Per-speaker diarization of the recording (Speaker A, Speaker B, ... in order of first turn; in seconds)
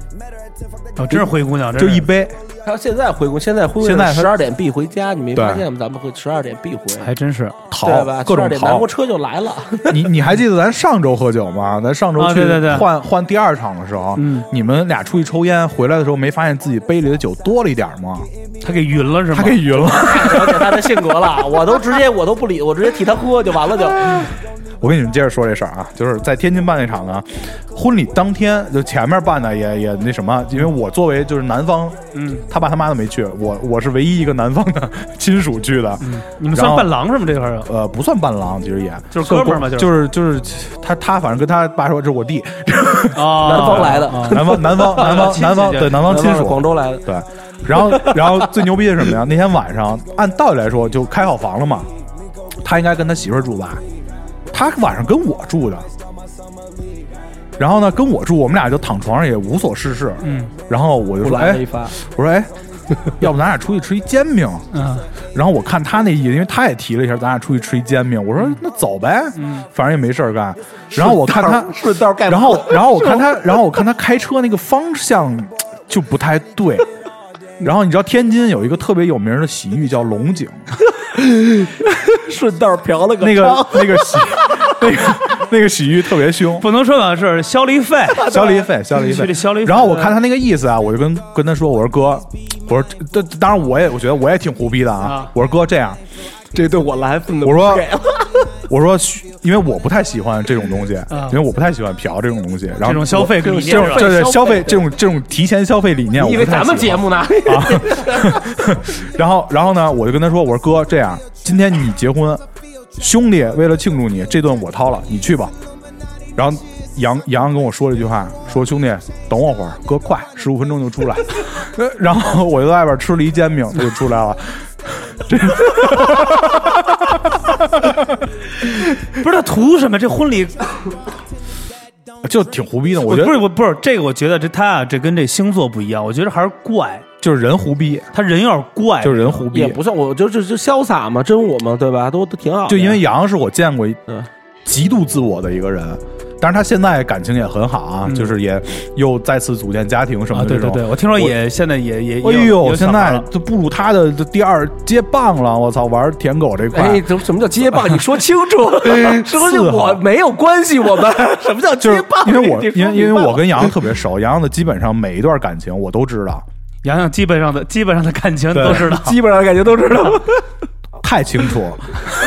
Speaker A: 1.0-2.1, 7.0-7.6, 12.2-12.9, 14.2-14.5, 18.6-19.7, 32.1-32.4, 36.0-37.7, 39.1-40.0, 43.1-46.1, 60.2-60.5, 64.7-65.1, 69.4-69.7, 86.6-88.4, 88.9-90.2, 95.0-95.3, 101.1-101.4, 102.8-104.2, 128.7-130.7, 133.1-137.1, 138.1-139.6, 148.1-148.4, 150.3-153.3, 166.8-169.2
Speaker B: 1.1-2.4, 3.8-4.3, 5.3-5.6, 7.7-8.9, 9.9-18.3, 19.3-21.0, 24.8-37.0, 37.6-51.9, 52.6-53.8, 54.5-55.9, 57.6-62.5, 63.1-64.7, 65.3-76.9, 77.6-80.6, 83.2-86.7, 88.2-96.0, 97.4-97.9, 98.7-112.4, 113.0-115.5, 116.4-128.0, 132.2-133.5, 137.2-138.1, 139.0-139.8, 142.7-144.0, 144.7-151.3, 152.2-157.1, 159.0-160.0, 161.8-166.4, 168.5-168.9, 171.0-171.9
Speaker C: 2.6-7.1, 7.8-10.1, 19.7-24.3, 43.4-45.2, 45.9-47.1, 47.8-48.5, 61.2-62.0, 70.9-73.4, 80.9-85.1, 88.1-88.7, 96.5-98.5, 103.2-104.9, 106.2-108.5, 139.5-143.0, 156.7-163.8, 168.6-170.4